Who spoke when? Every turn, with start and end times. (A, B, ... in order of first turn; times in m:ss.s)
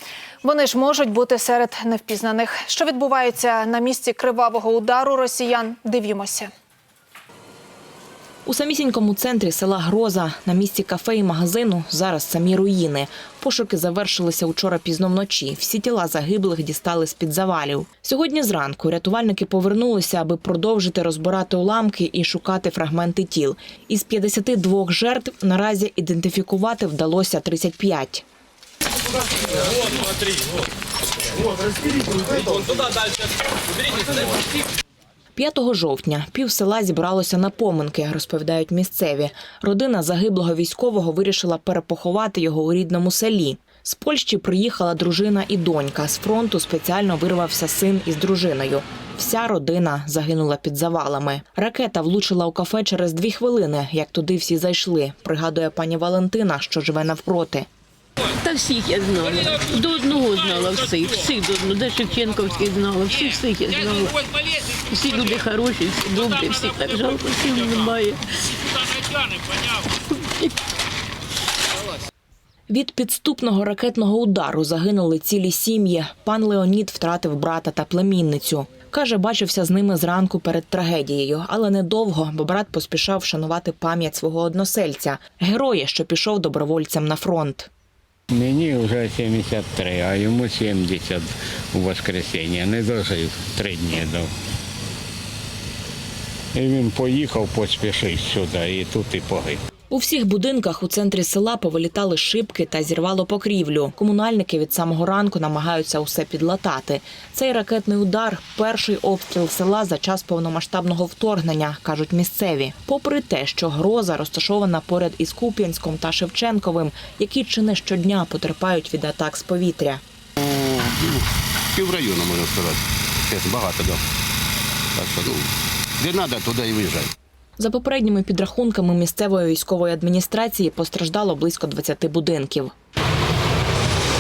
0:00.4-0:06.5 A
0:08.5-0:28.2 B
0:35.4-0:57.7 B
0:58.3-1:08.6 C
1:10.1-1:10.5 C
1:12.7-1:27.7 B
1:28.3-1:34.3 D
1:36.5-1:39.6 D
1:39.9-2:00.0 B
2:00.4-2:04.0 E
2:05.0-2:05.5 E
2:06.0-2:07.1 E
2:07.6-2:12.7 B